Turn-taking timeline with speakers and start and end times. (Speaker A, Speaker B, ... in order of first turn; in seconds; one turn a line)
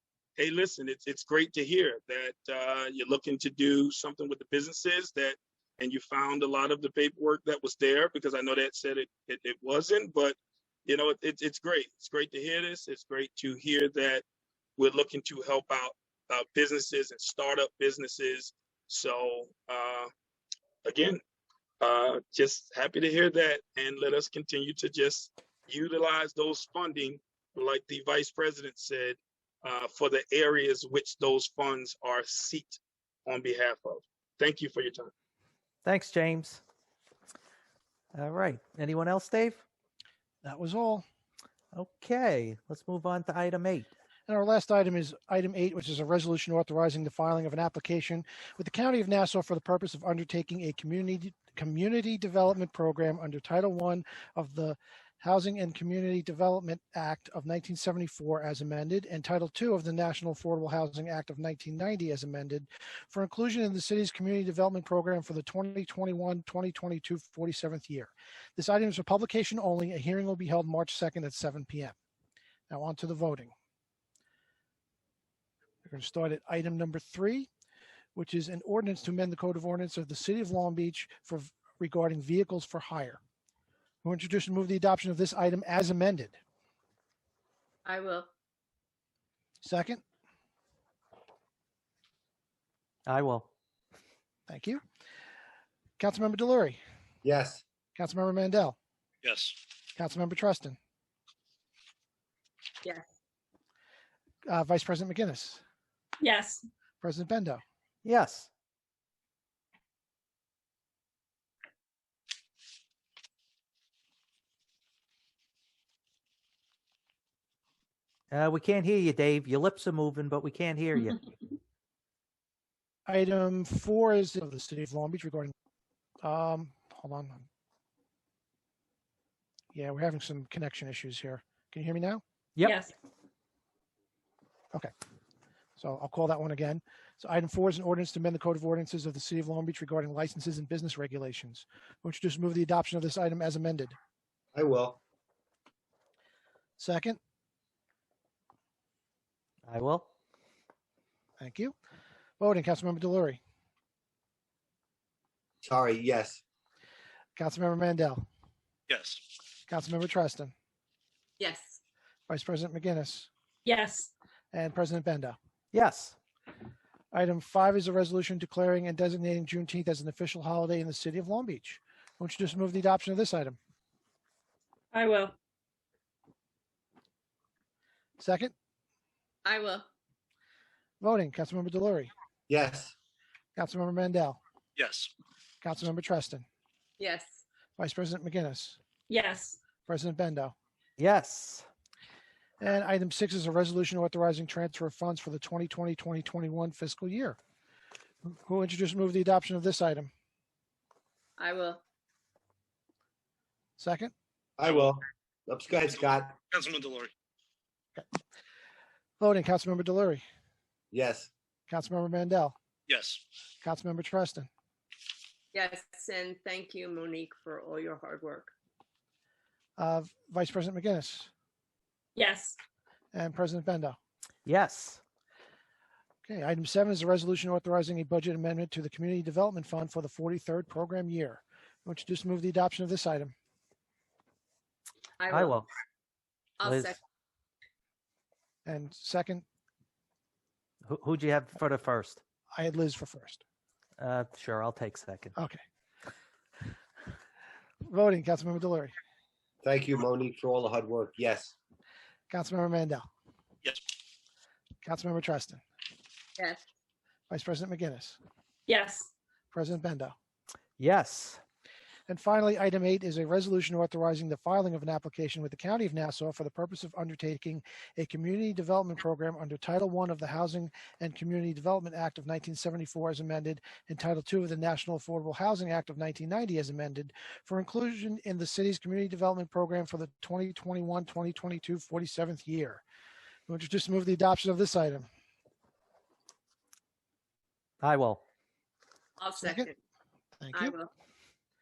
Speaker A: 0.4-14.2
Speaker A: 14.8-20.1
Speaker A: 20.8-21.2
Speaker A: 21.8-35.1
Speaker B: 35.8-36.6
Speaker B: 38.1-39.6
Speaker C: 40.4-41.0
Speaker B: 41.7-43.9
Speaker C: 44.3-72.0
Speaker C: 72.7-73.5
Speaker C: 75.8-77.5
Speaker C: 78.2-83.2
Speaker C: 84.0-86.4
Speaker D: 87.8-88.3
Speaker C: 89.6-90.0
Speaker B: 93.1-93.5
Speaker C: 94.5-94.8
Speaker C: 96.0-96.8
Speaker E: 97.2-97.6
Speaker C: 98.0-98.8
Speaker F: 99.2-99.6
Speaker C: 100.0-100.8
Speaker C: 104.5-105.6
Speaker G: 106.2-106.6
Speaker C: 107.0-107.6
Speaker B: 108.0-108.5
Speaker B: 118.3-121.2
Speaker C: 123.1-125.5
Speaker C: 126.2-127.5
Speaker C: 129.7-132.2
Speaker G: 132.6-132.9
Speaker C: 135.8-144.0
Speaker E: 144.6-145.0
Speaker C: 146.8-147.2
Speaker B: 149.7-150.1
Speaker C: 151.4-151.8
Speaker C: 152.4-153.4
Speaker E: 155.6-156.4
Speaker C: 157.4-158.3
Speaker F: 158.9-159.2
Speaker C: 159.7-160.5
Speaker D: 161.4-161.8
Speaker C: 162.3-163.3
Speaker G: 163.7-164.1
Speaker C: 164.5-165.4
Speaker B: 165.7-166.2
Speaker C: 167.1-173.6
Speaker G: 174.9-175.4
Speaker C: 178.2-178.5
Speaker D: 179.4-179.9
Speaker C: 181.0-182.1
Speaker E: 182.5-182.9
Speaker C: 183.6-184.4
Speaker F: 184.8-185.1
Speaker C: 185.6-186.5
Speaker D: 187.0-187.4
Speaker C: 187.8-188.8
Speaker G: 189.1-189.6
Speaker C: 189.9-190.6
Speaker B: 191.0-191.7
Speaker C: 192.6-197.4
Speaker C: 198.2-200.1
Speaker D: 201.4-201.8
Speaker C: 203.8-204.1
Speaker E: 204.6-206.4
Speaker F: 204.7-204.9
Speaker F: 205.8-207.1
Speaker C: 209.2-210.2
Speaker E: 210.9-211.3
Speaker C: 211.7-212.6
Speaker F: 212.9-213.2
Speaker C: 213.6-214.5
Speaker D: 215.5-218.5
Speaker C: 219.8-221.3
Speaker G: 222.2-222.6
Speaker C: 223.1-224.0
Speaker B: 224.5-225.0
Speaker C: 226.2-233.3
Speaker D: 235.2-235.6
Speaker B: 235.3-235.6
Speaker D: 236.6-237.0
Speaker B: 236.6-236.9
Speaker C: 238.7-239.4
Speaker B: 240.9-242.2
Speaker C: 242.5-243.4
Speaker B: 244.0-245.3
Speaker C: 245.4-245.6
Speaker C: 247.9-248.9
Speaker E: 249.6-251.5
Speaker C: 252.3-253.1
Speaker C: 254.8-255.6
Speaker D: 256.4-256.6
Speaker C: 257.3-258.2
Speaker G: 258.7-259.1
Speaker C: 259.5-260.2
Speaker B: 260.8-261.4
Speaker C: 262.1-282.8
Speaker C: 283.5-285.1
Speaker B: 287.8-288.2
Speaker D: 289.2-289.8
Speaker C: 289.4-289.7
Speaker C: 290.4-290.8
Speaker D: 290.5-290.9